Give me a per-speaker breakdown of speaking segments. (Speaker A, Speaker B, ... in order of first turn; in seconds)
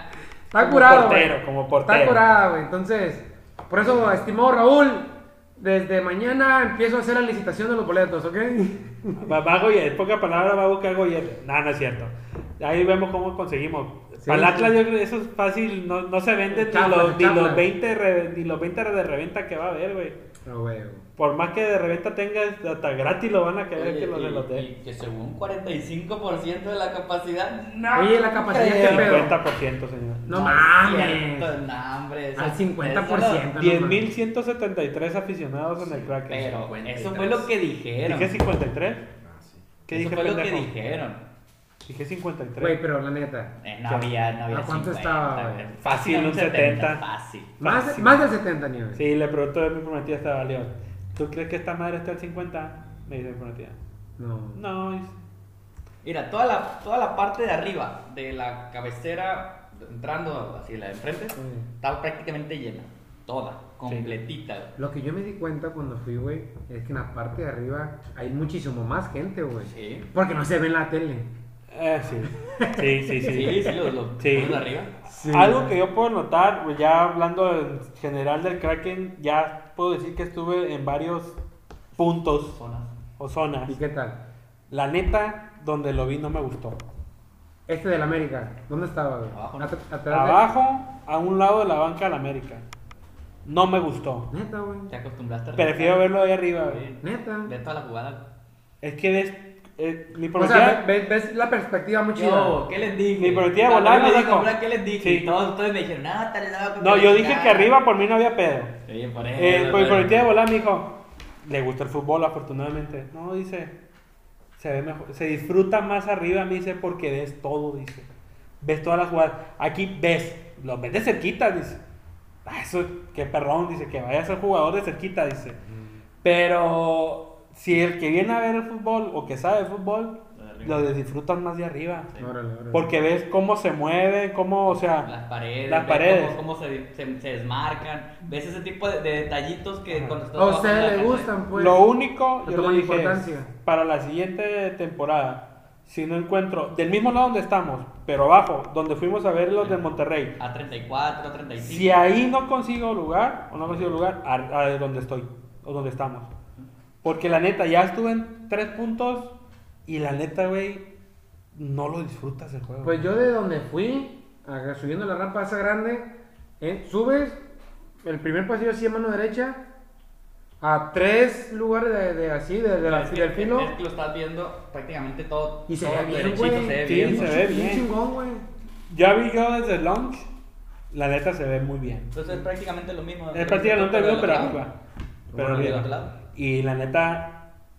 Speaker A: 0.5-9.3, 14.2-14.7, 16.5-17.7, 20.4-21.1, 27.9-29.4, 30.3-31.6, 32.4-34.1, 42.6-43.6, 44.5-45.7, 47.6-49.0, 54.2-54.6, 61.4-61.6, 64.8-71.3, 72.4-73.9, 75.1-75.8, 83.7-84.2, 87.7-90.5, 94.3-94.9, 97.0-97.5, 100.3-102.6, 132.2-132.9, 140.3-141.8, 142.4-143.5, 162.8-167.4, 168.0-169.6, 170.6-173.7, 175.7-178.5, 185.3-185.8
Speaker B: 0.5-2.2, 9.2-20.2, 21.2-24.7, 28.6-30.3, 33.6-36.7, 38.0-39.0, 39.9-40.7, 41.9-42.8, 45.9-47.0, 47.6-48.2, 49.0-53.8, 54.5-55.2, 71.7-81.4, 82.0-82.6, 83.2-83.8, 84.7-86.8, 90.1-92.7, 93.5-94.3, 95.6-96.8, 98.8-100.8, 103.2-105.3, 106.8-108.8, 109.4-113.7, 114.6-118.1, 118.6-121.8, 122.5-125.6, 126.2-132.1, 132.7-135.1, 135.7-136.4, 139.9-140.2, 141.6-150.3, 151.6-156.3, 157.0-159.3, 159.9-160.9, 161.5-163.1, 176.8-177.9, 178.9-180.3, 180.9-182.1, 183.3-184.7, 185.3-187.4
Speaker C: 23.8-29.3, 30.3-33.5, 36.3-38.4, 39.9-41.2, 43.6-47.5, 56.0-64.7, 69.6-70.1, 73.2-74.9, 82.6-82.9, 89.3-89.7, 94.9-98.2, 102.2-107.7, 108.9-110.3, 130.3-130.9, 134.7-141.3, 150.4-152.1, 172.8-177.4, 182.1-184.6, 185.3-186.1
Speaker D: 35.8-37.5, 39.2-39.7